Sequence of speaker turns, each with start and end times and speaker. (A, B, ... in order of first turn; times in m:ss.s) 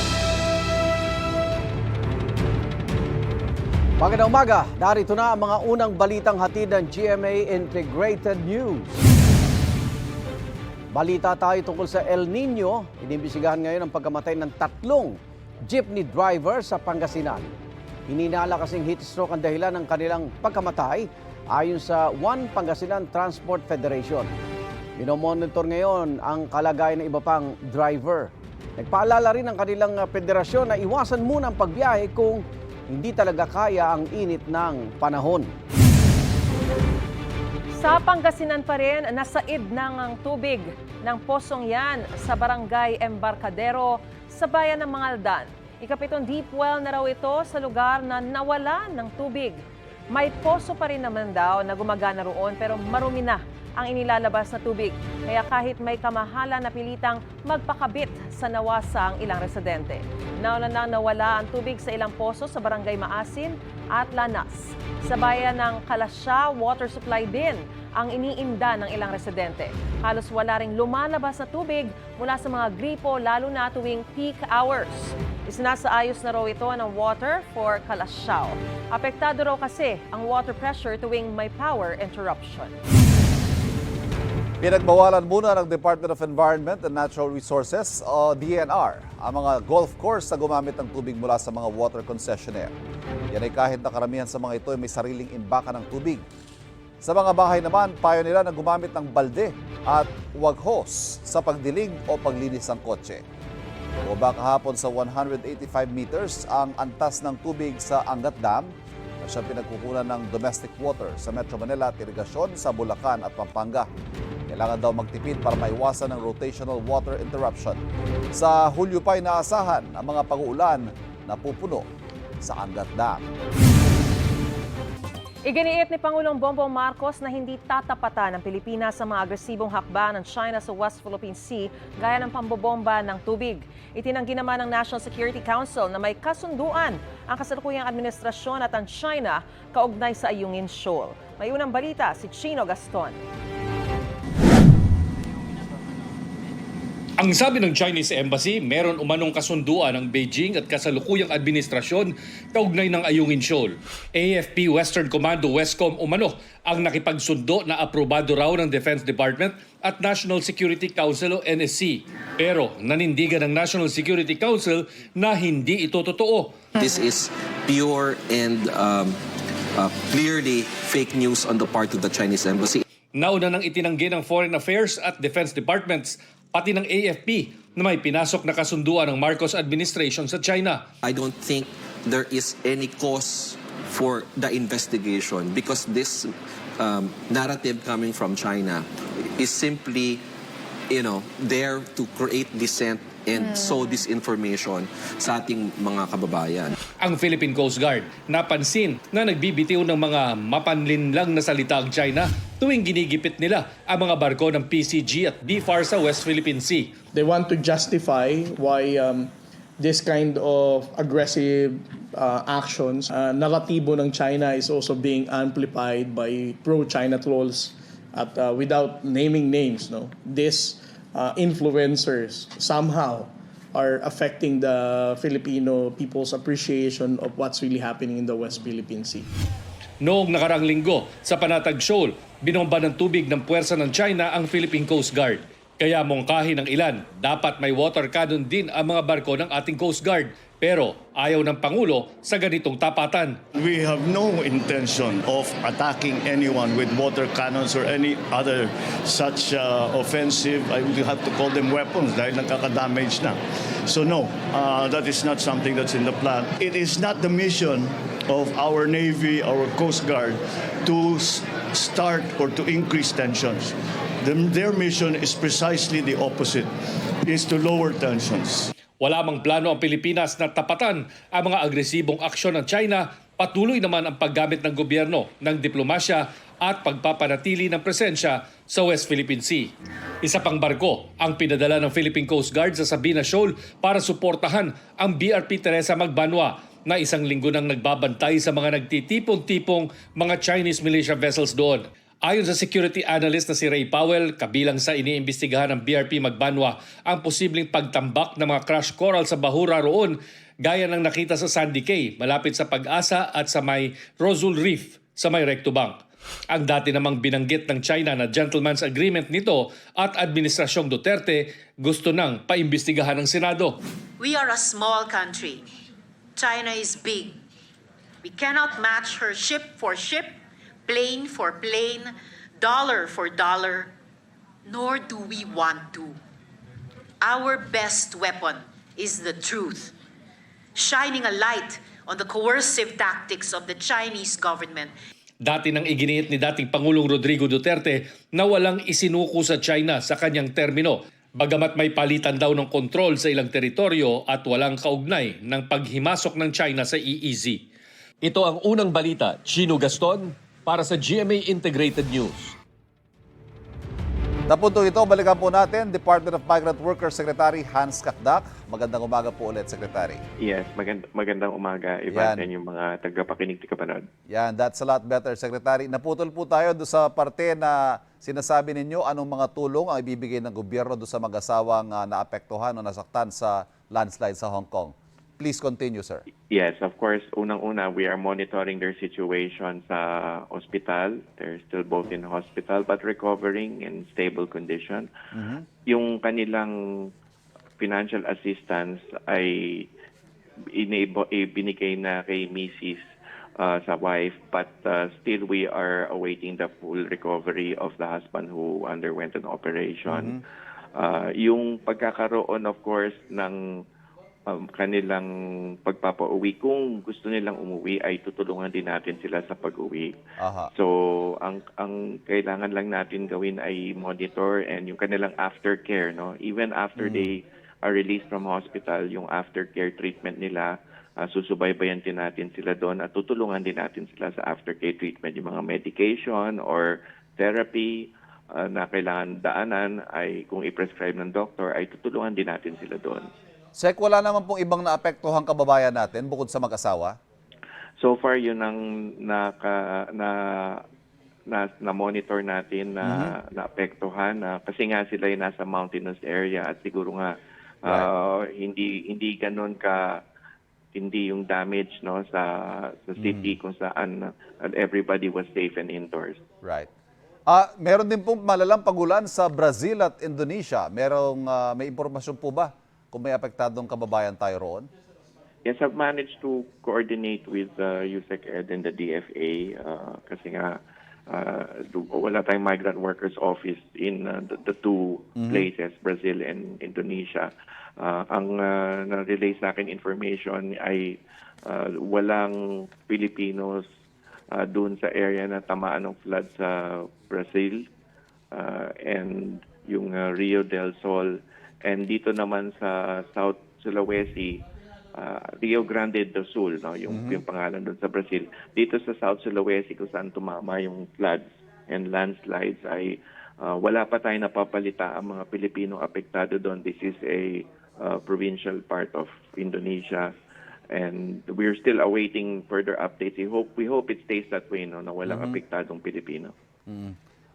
0:04.0-0:08.9 A
0:10.9-0:17.5 A
0:18.1-0:24.3 A
0:25.0-0:35.5 A
0:37.8-1:22.7 B
1:24.6-1:32.7 C
1:33.3-1:36.2 C
1:37.0-1:43.2 C
1:44.0-1:53.9 C
1:54.5-1:57.8 C
1:58.3-2:01.8 C
2:02.4-2:03.2 C
2:05.5-2:23.2 B
2:27.2-2:46.5 D
2:46.8-2:49.2 E
2:49.7-2:52.8 E
2:53.2-3:00.8 D
3:01.0-3:10.2 E
3:10.9-3:16.8 E
3:17.0-3:26.9 D
3:27.1-3:49.3 F
3:50.0-4:03.4 D
4:03.6-4:26.7 G
4:27.2-4:28.7 G
4:29.0-4:39.7 D
4:40.2-5:06.0 D
5:06.5-5:13.8 D
5:14.2-5:15.6 H
5:16.4-5:17.4 H
5:18.2-5:23.9 H
5:24.6-5:26.2 H
5:27.2-5:29.9 H
5:30.7-5:34.9 H
5:35.4-5:47.6 D
5:48.2-5:52.5 D
5:54.5-6:00.2 C
6:00.4-6:04.0 I
6:02.1-6:02.5 C
6:04.3-6:16.2 C
6:16.5-6:25.1 I
6:25.3-6:25.6 C
6:25.9-6:26.7 I
6:27.8-6:29.8 I
6:30.8-6:33.0 I
6:33.6-6:40.4 I
6:40.1-6:40.4 C
6:41.0-6:43.6 I
6:44.5-6:45.3 I
6:45.8-6:50.1 I
6:50.4-6:50.7 C
6:50.7-7:13.3 I
6:57.0-6:57.3 C
7:13.8-7:17.2 C
7:18.0-7:20.8 I
7:21.5-7:27.4 I
7:23.0-7:23.4 C
7:27.9-7:30.2 I
7:30.9-7:36.4 I
7:33.2-7:33.6 C
7:36.6-7:36.9 C
7:37.5-7:44.9 C
7:45.6-7:50.8 I
7:51.3-8:02.6 I
7:55.4-7:55.7 C
8:03.1-8:03.9 I
8:04.5-8:07.8 I
8:08.5-8:14.6 I
8:15.1-8:30.3 I
8:17.1-8:17.4 C
8:30.9-8:36.5 I
8:35.2-8:35.6 C
8:36.9-8:37.2 C